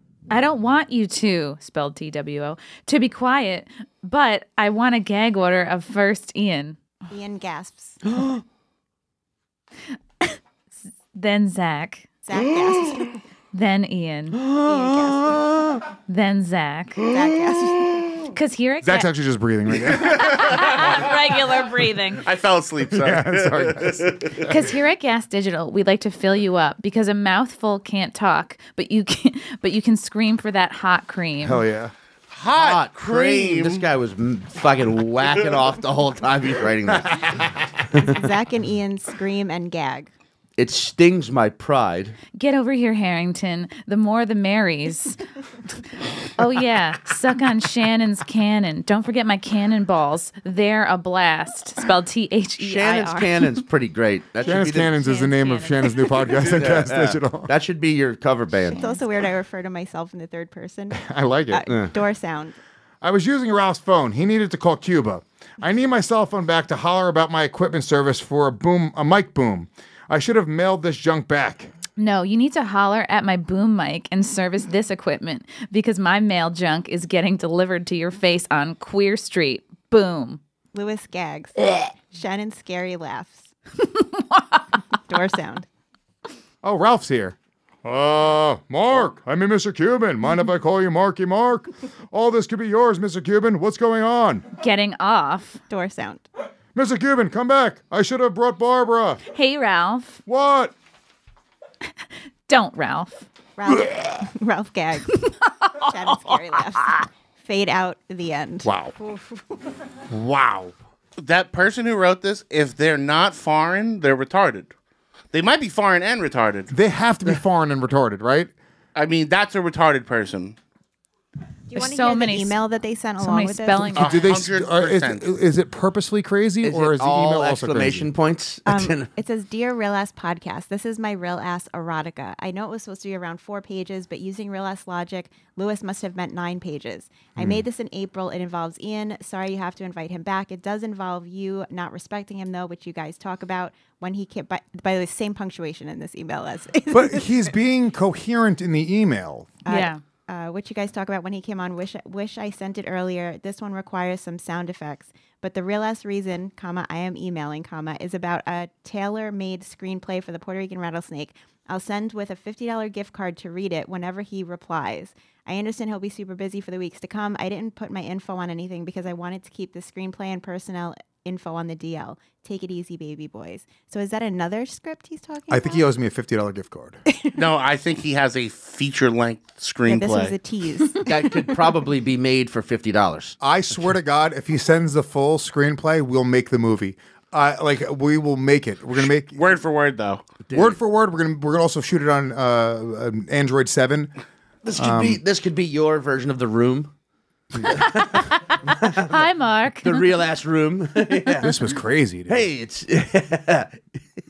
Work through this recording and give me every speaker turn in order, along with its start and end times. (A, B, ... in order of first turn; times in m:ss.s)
0:00.3-0:06.8 A
0:07.1-0:08.0 B
0:11.1-0:12.1 A
0:12.2-0:13.2 B
0:13.5-0:14.4 A
0:14.5-0:15.5 B
0:14.7-0:15.1 C
0:16.1-0:17.1 A
0:17.1-0:18.2 B
0:18.3-0:19.1 A
0:18.8-0:20.4 D
0:20.0-0:22.2 A
0:20.0-0:21.0 E
0:22.2-0:24.3 E
0:22.9-0:24.6 D
0:24.4-0:31.6 A
0:31.4-0:31.9 D
0:32.3-0:33.8 E
0:32.6-0:37.3 C
0:37.2-0:37.5 D
0:38.0-0:40.1 B
0:40.6-0:42.2 C
0:42.4-0:45.2 A
0:45.8-0:53.6 A
0:52.6-0:54.9 C
0:54.4-0:57.5 D
0:54.9-0:56.1 A
0:56.5-0:58.8 C
0:58.7-0:59.0 A
0:58.7-1:02.6 B
1:00.9-1:01.6 D
1:03.0-1:11.7 D
1:12.0-1:20.4 A
1:20.7-1:23.5 B
1:24.0-1:24.6 A
1:25.1-1:25.7 B
1:26.6-1:34.5 D
1:34.6-1:35.6 A
1:35.7-1:36.3 B
1:36.8-1:39.2 D
1:39.3-1:40.2 A
1:40.3-1:40.7 D
1:42.5-1:43.3 A
1:43.6-1:45.2 B
1:45.2-1:45.5 A
1:45.8-1:49.2 B
1:48.6-1:49.0 D
1:50.1-1:50.7 D
1:51.2-1:54.7 E
1:55.3-1:56.7 E
1:56.7-1:58.5 D
1:59.0-2:00.6 E
2:01.7-2:03.9 B
2:01.8-2:02.6 A
2:03.2-2:04.1 A
2:03.8-2:08.1 D
2:04.0-2:05.3 E
2:06.6-2:09.1 C
2:08.6-2:27.3 B
2:17.4-2:17.6 D
2:26.9-2:29.6 D
2:29.7-2:55.9 B
2:29.7-2:30.0 A
2:55.5-2:57.0 D
2:57.4-3:00.4 E
2:59.9-3:01.5 B
3:01.0-3:03.4 C
3:03.4-3:09.4 D
3:09.0-3:10.2 E
3:10.5-3:10.8 C
3:10.5-3:14.2 D
3:14.6-3:16.9 C
3:14.8-3:15.2 D
3:17.6-3:18.4 A
3:19.0-3:20.1 A
3:19.8-3:21.6 C
3:21.4-3:22.5 D
3:22.3-3:24.0 C